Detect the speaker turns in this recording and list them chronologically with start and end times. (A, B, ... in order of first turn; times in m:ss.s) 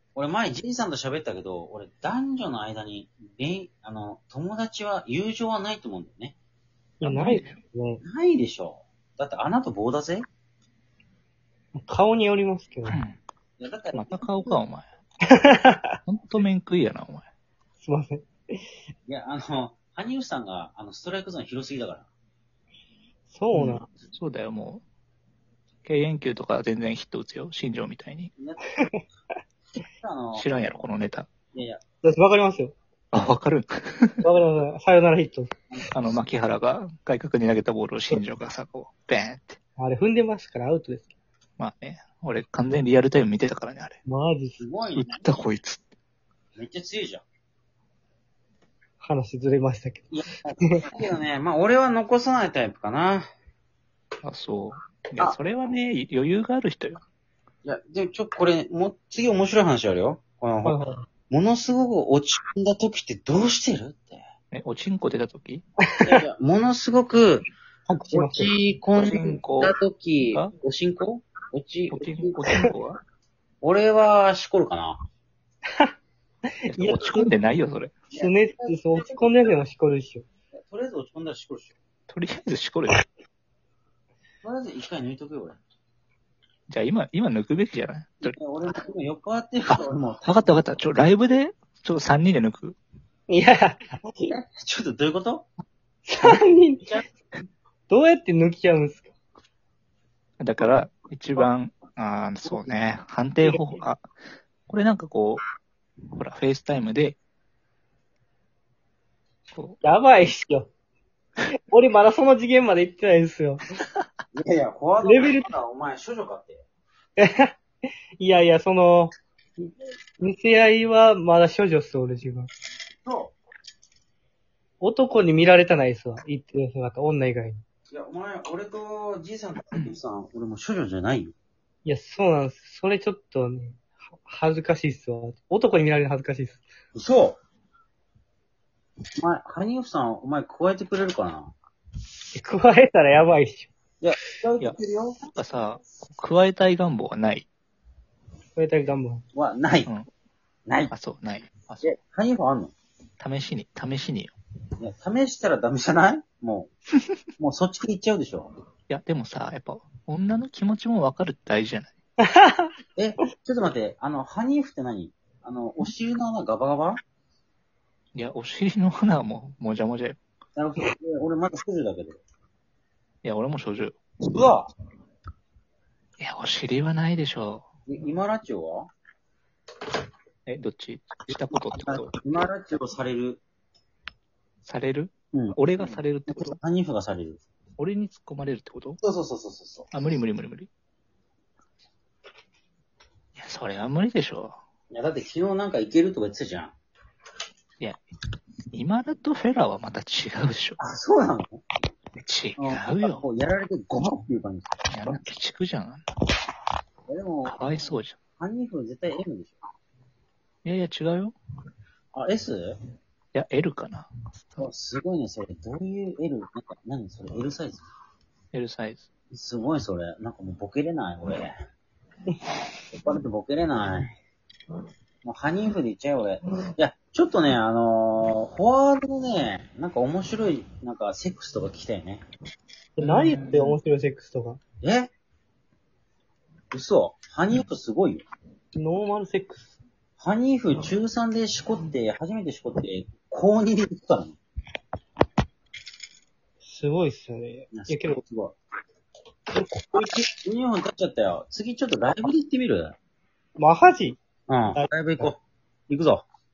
0:00.1-0:06.3 A
0:07.0-0:08.0 B
0:07.0-0:07.6 C
0:08.0-0:10.2 A
0:11.7-0:13.0 B
0:12.9-0:13.2 C
0:13.6-0:14.4 A
0:14.0-0:14.8 C
0:15.3-0:16.0 B
0:16.1-0:17.2 C
0:17.8-0:18.6 B
0:19.1-0:22.1 A
0:23.3-0:23.9 B
0:23.5-0:24.8 C
0:25.8-0:28.3 C
0:28.4-0:28.8 A
0:30.0-0:30.5 A
0:30.3-0:31.3 C
0:31.5-0:31.8 A
0:32.0-0:32.7 B
0:33.1-0:34.2 C
0:34.2-0:35.5 B
0:35.9-0:39.6 C
0:39.8-0:41.1 B
0:41.6-0:44.0 C
0:44.0-0:44.6 B
0:44.6-0:45.2 A
0:44.9-0:45.8 C
0:46.6-0:47.2 A
0:49.0-0:51.0 B
0:50.1-0:53.3 A
0:54.2-0:57.0 C
0:57.6-1:00.8 A
1:00.6-1:01.0 B
1:01.3-1:04.2 A
1:04.5-1:05.6 C
1:05.8-1:06.2 B
1:06.0-1:07.5 A
1:07.9-1:08.5 B
1:08.1-1:12.4 A
1:09.0-1:09.7 C
1:11.9-1:13.0 C
1:13.6-1:15.0 A
1:16.5-1:17.3 B
1:16.7-1:18.0 C
1:18.1-1:19.4 A
1:18.1-1:20.2 B
1:20.6-1:21.7 A
1:22.1-1:23.0 C
1:24.4-1:25.6 A
1:26.7-1:28.4 C
1:28.2-1:30.5 A
1:29.7-1:32.8 C
1:33.3-1:34.3 B
1:34.3-1:35.5 A
1:36.1-1:37.0 B
1:37.9-1:39.1 B
1:40.4-1:44.0 C
1:44.6-1:45.4 C
1:46.1-1:47.2 C
1:49.5-1:49.8 C
1:49.8-1:50.7 B
1:51.7-1:53.6 B
1:54.3-1:56.6 A
1:55.0-1:55.5 B
1:57.2-1:57.5 B
1:58.2-2:02.5 B
2:03.0-2:03.3 A
2:04.8-2:07.6 B
2:07.9-2:11.3 A
2:11.8-2:16.6 B
2:16.9-2:17.4 A
2:19.2-2:21.5 A
2:22.3-2:23.7 B
2:24.0-2:25.2 A
2:25.3-2:27.5 C
2:28.6-2:29.2 B
2:29.3-2:29.9 A
2:30.7-2:30.9 A
2:30.9-2:31.8 C
2:31.8-2:32.7 A
2:33.2-2:34.3 C
2:34.8-2:36.7 A
2:37.4-2:38.5 A
2:38.9-2:41.9 C
2:42.2-2:42.7 B
2:43.0-2:47.0 A
2:48.1-2:50.2 C
2:50.6-2:52.2 A
2:53.2-2:54.0 C
2:54.3-2:54.7 A
2:56.2-2:57.7 C
2:57.9-2:58.9 A
3:00.4-3:02.1 C
3:01.5-3:03.4 A
3:04.6-3:06.6 C
3:05.3-3:07.4 A
3:07.8-3:09.0 C
3:09.0-3:09.9 A
3:09.9-3:10.7 C
3:13.4-3:14.6 C
3:14.9-3:16.7 A
3:18.7-3:20.8 C
3:20.8-3:21.6 A
3:22.2-3:23.2 C
3:22.6-3:25.2 A
3:24.9-3:26.0 C
3:27.1-3:27.6 A
3:27.4-3:28.2 C
3:28.4-3:29.6 A
3:30.6-3:31.3 C
3:32.1-3:32.8 A
3:33.3-3:34.7 C
3:34.6-3:37.8 A
3:38.5-3:39.1 C
3:39.3-3:41.5 A
3:42.9-3:44.1 A
3:45.2-3:52.2 A
3:53.0-3:54.6 B
3:53.0-3:53.6 C
3:54.8-3:55.1 A
3:56.7-3:58.2 A
3:58.7-3:59.7 B
4:00.2-4:04.4 A
4:06.6-4:08.2 B
4:07.7-4:08.6 A
4:09.5-4:10.2 B
4:10.0-4:13.0 A
4:13.6-4:14.2 B
4:14.5-4:16.2 A
4:14.7-4:15.2 B